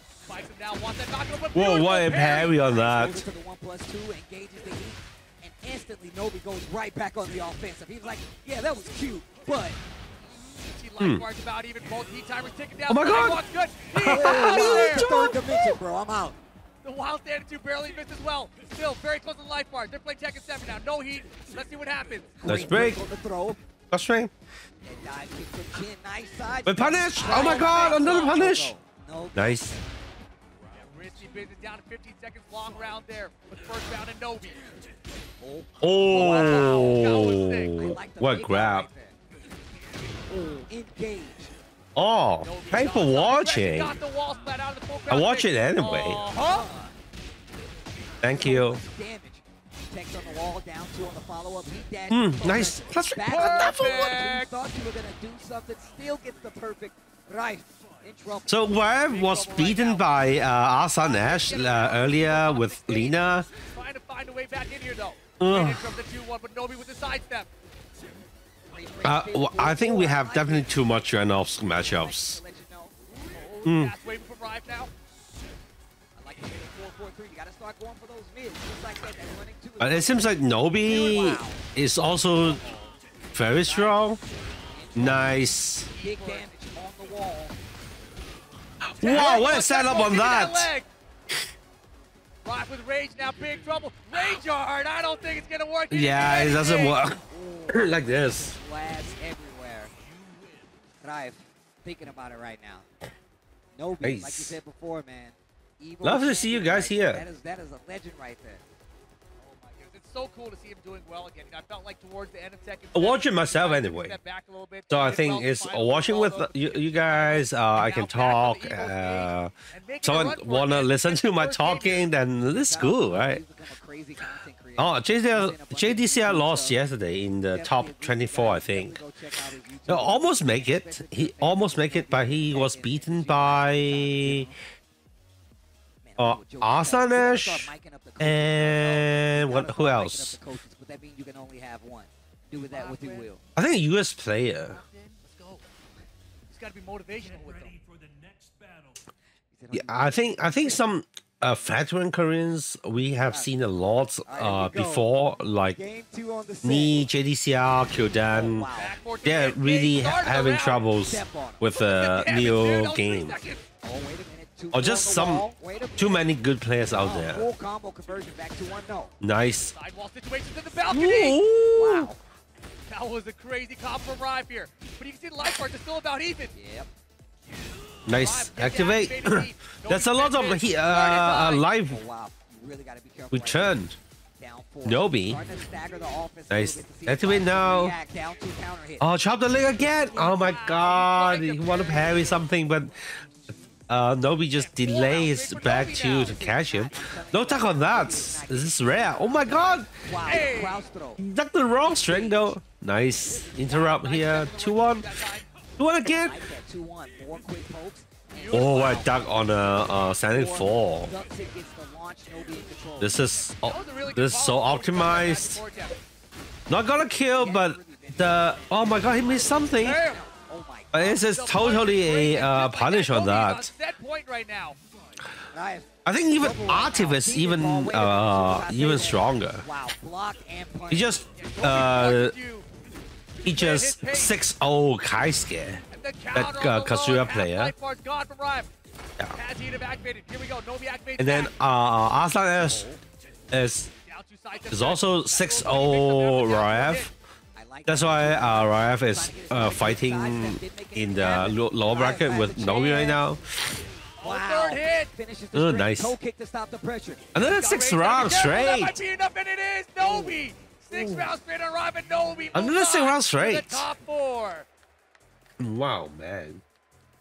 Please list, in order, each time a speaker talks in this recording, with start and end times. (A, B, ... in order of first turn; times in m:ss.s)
0:00.3-0:02.9 A
0:01.5-0:03.2 B
0:02.9-0:09.8 C
0:10.5-0:15.1 A
0:11.0-0:11.2 B
0:12.9-0:13.4 B
0:14.0-0:15.8 B
0:14.1-0:16.4 C
0:16.8-0:22.4 A
0:22.4-0:23.6 C
0:22.4-0:23.0 B
0:23.9-0:24.3 B
0:24.8-0:29.7 C
0:26.7-0:28.8 B
0:27.2-0:28.5 A
0:29.4-0:29.8 B
0:30.8-0:34.7 A
0:35.4-0:37.2 C
0:35.8-0:38.9 B
0:36.1-0:37.8 A
0:37.8-0:39.2 C
0:40.3-0:41.5 C
0:42.0-0:44.0 B
0:42.4-0:46.7 A
0:45.1-0:46.2 B
0:46.4-0:47.0 C
0:48.2-0:48.8 B
0:48.4-0:58.7 C
0:52.1-0:54.2 B
0:53.3-0:54.5 A
0:58.5-1:03.5 B
0:59.1-1:00.4 A
1:01.0-1:07.5 A
1:05.4-1:05.9 B
1:08.7-1:11.0 C
1:09.0-1:12.4 B
1:11.7-1:13.2 C
1:13.3-1:14.9 A
1:13.6-1:13.9 B
1:16.2-1:21.7 C
1:19.8-1:22.6 B
1:22.3-1:24.1 C
1:23.3-1:24.2 B
1:24.7-1:27.6 C
1:25.0-1:25.9 B
1:25.9-1:26.5 A
1:28.9-1:30.7 B
1:29.0-1:30.9 A
1:32.4-1:37.0 A
1:35.9-1:38.6 B
1:37.3-1:39.9 C
1:41.0-1:42.9 C
1:43.7-1:48.6 C
1:44.0-1:44.6 B
1:46.0-1:47.2 B
1:49.4-2:02.1 A
1:52.9-1:54.2 B
1:54.9-2:03.4 B
2:02.5-2:06.8 C
2:04.8-2:09.0 B
2:07.5-2:14.6 C
2:09.9-2:14.5 B
2:16.0-2:23.4 C
2:16.2-2:20.4 B
2:22.5-2:23.3 A
2:23.6-2:24.8 B
2:24.6-2:25.6 A
2:26.5-2:27.8 A
2:29.5-2:30.8 C
2:29.7-2:35.8 B
2:33.2-2:33.5 C
2:34.2-2:35.1 C
2:35.7-2:37.1 C
2:36.6-2:38.7 B
2:38.3-2:39.0 C
2:38.7-2:40.9 A
2:39.2-2:43.4 B
2:41.1-2:41.7 C
2:41.8-2:43.6 A
2:43.8-2:46.3 C
2:44.7-2:47.5 B
2:46.9-2:49.1 C
2:49.2-2:49.7 B
2:49.8-2:51.4 A
2:50.9-2:52.1 B
2:51.7-2:52.2 C
2:52.9-2:56.5 A
2:56.5-2:56.9 C
2:58.1-3:02.0 B
2:58.1-3:01.7 A
3:01.9-3:03.8 C
3:03.3-3:04.0 B
3:04.4-3:09.1 C
3:04.8-3:05.4 B
3:06.5-3:08.0 B
3:09.0-3:13.0 B
3:10.0-3:12.4 A
3:13.9-3:19.9 B
3:14.6-3:16.4 A
3:16.2-3:21.2 C
3:20.2-3:20.9 A
3:21.2-3:25.1 B
3:21.8-3:22.6 C
3:23.3-3:23.5 C
3:23.5-3:25.5 A
3:25.8-3:26.4 B
3:26.1-3:33.4 C
3:28.3-3:29.2 A
3:28.5-3:31.1 B
3:33.0-3:35.6 B
3:33.6-3:36.0 A
3:36.7-3:40.0 B
3:37.4-3:41.3 C
3:39.8-3:40.2 A
3:40.9-3:43.7 B
3:41.3-3:44.8 A
3:45.5-3:51.2 C
3:46.0-3:49.6 B
3:50.9-3:52.4 B
3:51.3-3:52.7 A
3:53.4-3:57.7 B
3:53.5-3:54.4 A
3:55.9-3:58.7 A
3:59.3-4:01.5 A
4:01.2-4:02.9 B
4:02.6-4:03.0 C
4:03.5-4:03.9 B
4:04.0-4:07.1 A
4:04.7-4:07.1 B
4:07.6-4:13.2 C
4:07.9-4:13.8 B
4:14.2-4:15.1 A
4:14.2-4:17.4 C
4:15.5-4:16.2 B
4:17.3-4:19.0 B
4:17.4-4:24.7 A
4:21.0-4:21.3 B
4:22.5-4:23.9 B
4:25.6-4:26.6 B